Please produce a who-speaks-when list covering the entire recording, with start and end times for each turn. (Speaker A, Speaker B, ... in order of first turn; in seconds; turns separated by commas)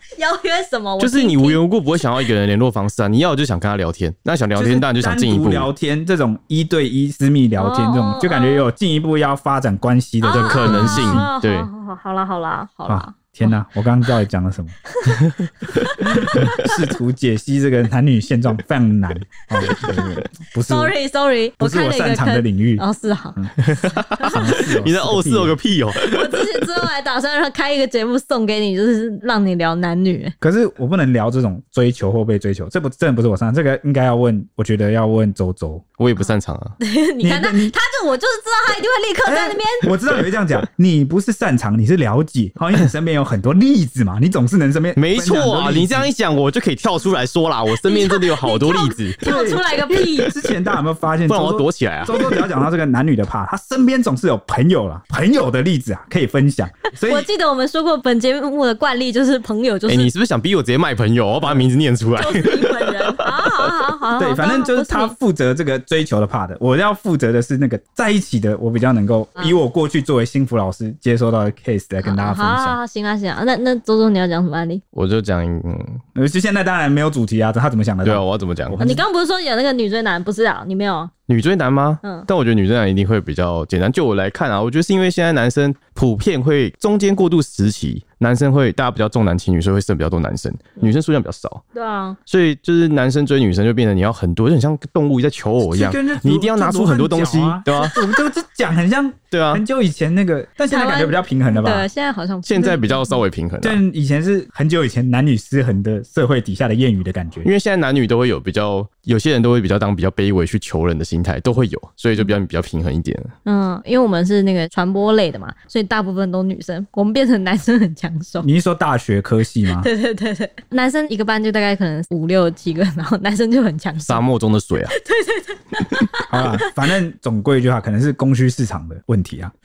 Speaker A: 0.2-1.6, Speaker B: 1.0-5.7, Speaker C: 4.6-11.3, Speaker A: 7.6-8.7, Speaker A: 10.2-13.5, Speaker B: 10.3-11.7, Speaker C: 12.9-14.8, Speaker B: 15.1-15.9, Speaker A: 15.7-16.7, Speaker C: 16.0-20.9, Speaker A: 19.6-23.4, Speaker C: 21.6-22.8, Speaker B: 23.6-26.4, Speaker A: 24.2-24.6, Speaker C: 24.2-25.6, Speaker A: 25.9-30.4, Speaker C: 30.4-35.9, Speaker B: 36.0-36.8, Speaker A: 36.2-39.9, Speaker C: 37.2-37.8, Speaker C: 39.3-46.1, Speaker B: 45.0-49.2, Speaker A: 47.8-50.3, Speaker C: 49.2-57.3, Speaker B: 51.3-52.4, Speaker A: 57.0-60.1, Speaker B: 59.9-63.7, Speaker A: 62.2-65.1, Speaker C: 64.2-72.8, Speaker A: 72.0-74.8, Speaker B: 74.9-76.0, Speaker C: 76.2-79.0, Speaker B: 78.0-78.8, Speaker A: 78.8-81.1, Speaker B: 81.3-91.6, Speaker A: 91.7-92.2, Speaker B: 92.3-98.0, Speaker C: 95.7-101.9, Speaker B: 99.3-99.6, Speaker A: 100.7-103.2, Speaker B: 102.5-103.8, Speaker C: 103.6-107.5, Speaker B: 107.4-113.3, Speaker A: 113.5-118.5, Speaker C: 118.4-119.9, Speaker A: 119.7-124.2, Speaker B: 124.0-124.9, Speaker A: 124.9-126.7, Speaker C: 126.3-129.5